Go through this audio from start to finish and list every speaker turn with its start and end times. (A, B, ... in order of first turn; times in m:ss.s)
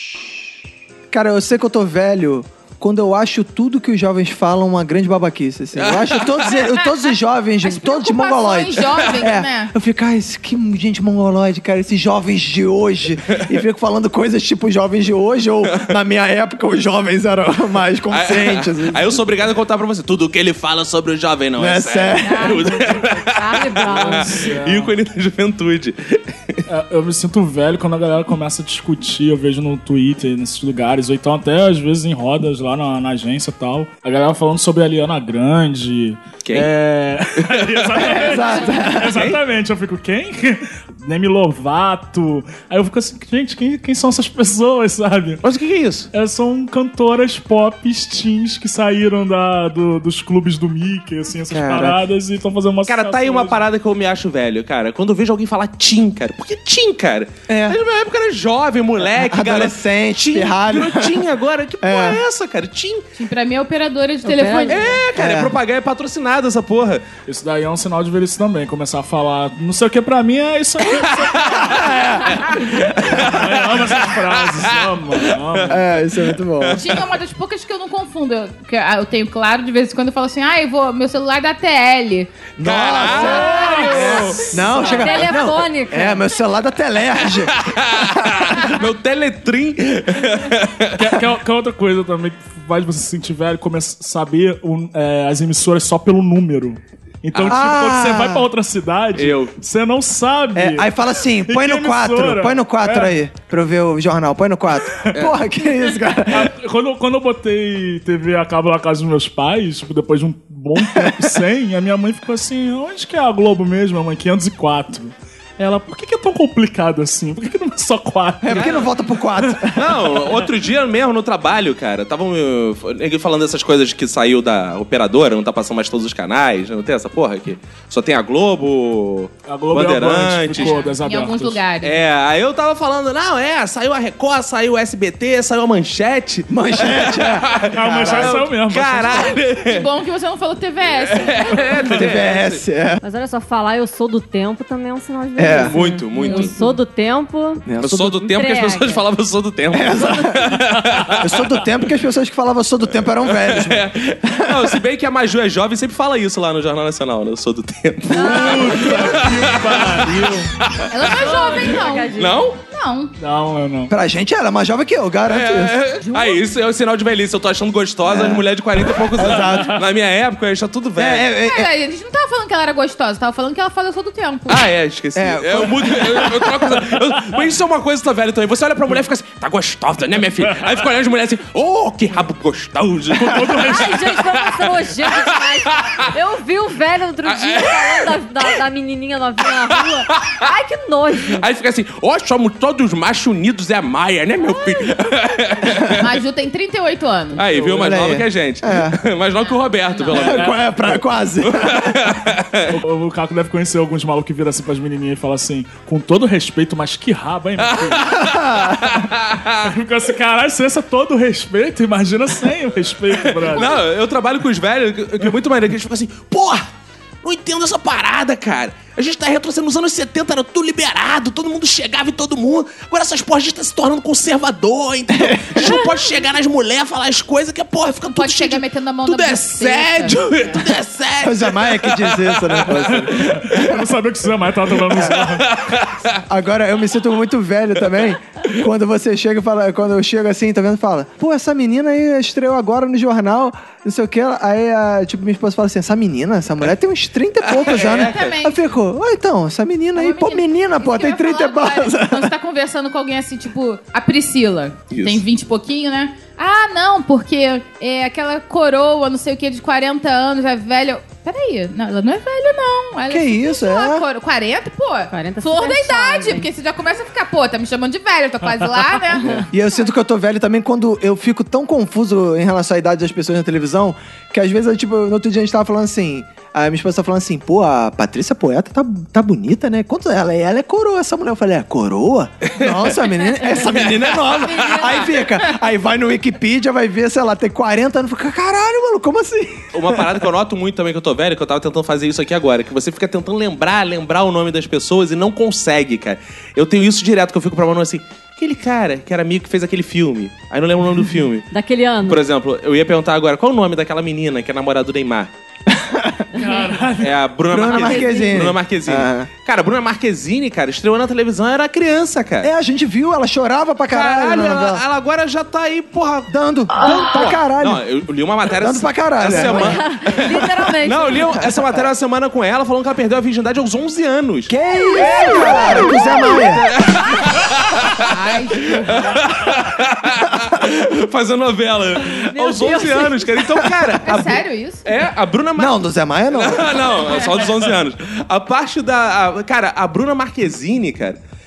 0:01.1-0:19.2 A
0:05.8-0:06.6 B
0:06.4-0:07.0 C
0:07.6-0:09.7 C
0:15.7-0:15.9 B
0:18.1-0:26.6 B
0:21.6-0:22.6 A
0:22.2-0:24.2 C
0:22.4-0:24.5 D
0:24.0-0:24.9 E
0:26.7-0:45.4 E
0:36.4-0:36.7 B
0:37.4-0:38.4 B
0:38.0-0:39.3 A
0:39.0-0:39.4 B
0:45.4-0:46.1 B
0:46.1-0:53.6 E
0:51.5-0:51.9 A
0:51.6-0:51.8 B
0:52.9-1:03.0 B
0:57.5-0:57.8 A
0:59.0-1:01.2 A
1:01.8-1:02.2 A
1:03.2-1:05.0 C
1:04.2-1:04.9 D
1:04.7-1:07.0 B
1:05.1-1:05.5 A
1:07.3-1:11.9 E
1:10.9-1:15.8 B
1:11.6-1:12.4 A
1:12.8-1:16.1 E
1:15.7-1:16.8 A
1:16.6-1:17.0 B
1:16.7-1:22.3 C
1:22.6-1:28.7 A
1:22.6-1:24.5 B
1:23.2-1:24.4 C
1:23.6-1:23.8 E
1:24.8-1:26.2 D
1:27.3-1:31.1 B
1:31.0-1:40.9 E
1:37.3-1:37.7 B
1:37.4-1:38.5 A
1:39.1-1:39.5 B
1:40.5-1:46.5 A
1:41.4-1:43.1 E
1:45.1-1:45.4 B
1:46.3-1:58.9 E
1:50.8-1:51.3 A
1:58.4-2:00.0 A
1:59.7-2:10.8 B
2:09.5-2:11.6 E
2:10.5-2:12.0 C
2:11.8-2:19.9 B
2:16.5-2:18.4 A
2:17.7-2:19.4 E
2:19.6-2:22.0 C
2:21.0-2:22.6 B
2:21.9-2:23.0 A
2:23.0-2:29.0 D
2:25.4-2:25.8 A
2:25.4-2:26.5 B
2:26.2-2:26.8 C
2:27.6-2:28.2 A
2:27.8-2:31.4 B
2:29.7-2:30.6 A
2:31.2-2:34.8 A
2:33.2-2:41.6 B
2:38.1-2:38.8 D
2:38.1-2:40.5 E
2:40.9-2:43.1 C
2:41.1-2:42.5 D
2:42.1-2:42.6 B
2:43.2-2:43.9 E
2:43.9-2:45.8 A
2:45.3-2:51.3 B
2:46.1-2:46.4 C
2:48.0-2:48.5 A
2:49.1-2:49.8 A
2:51.0-2:51.7 A
2:51.4-2:54.7 C
2:54.5-3:06.1 B
2:55.1-2:56.4 A
3:03.1-3:04.1 E
3:03.6-3:11.4 D
3:07.2-3:08.5 B
3:09.7-3:10.4 B
3:11.3-3:16.1 B
3:16.0-3:17.4 C
3:17.4-3:20.5 B
3:17.5-3:17.9 E
3:17.7-3:19.0 A
3:19.4-3:20.2 C
3:20.1-3:22.0 A
3:20.2-3:20.9 E
3:21.4-3:22.7 B
3:22.7-3:28.1 E
3:27.6-3:29.7 B
3:28.2-3:28.9 A
3:29.6-3:33.8 E
3:33.1-3:36.7 B
3:37.2-3:53.7 B
3:45.1-3:45.7 A
3:48.1-3:50.5 C
3:51.2-3:53.7 A
3:52.9-3:55.5 E
3:54.9-3:55.2 A
3:55.1-3:56.2 B
3:56.3-4:12.3 A
4:07.5-4:08.4 B
4:07.6-4:08.6 C
4:10.0-4:29.8 C
4:14.9-4:15.2 B
4:23.1-4:24.0 A
4:25.1-4:26.5 D
4:29.5-4:50.2 A
4:42.5-4:45.1 B
4:49.7-5:01.5 B
5:01.5-5:02.2 D
5:02.0-5:05.3 B
5:05.7-5:06.3 A
5:06.4-5:07.2 E
5:06.4-5:06.6 D
5:07.0-5:12.5 B
5:07.5-5:09.3 A
5:07.7-5:08.4 D
5:12.4-5:14.8 A
5:13.9-5:28.2 B
5:16.3-5:17.8 A
5:18.6-5:19.8 A
5:19.3-5:21.4 D
5:21.5-5:21.8 A
5:24.5-5:26.7 A
5:28.1-5:29.2 C
5:28.9-5:35.8 B
5:32.1-5:33.3 D
5:34.0-5:34.8 C
5:35.6-5:37.0 A
5:36.3-5:41.2 B
5:37.1-5:37.4 C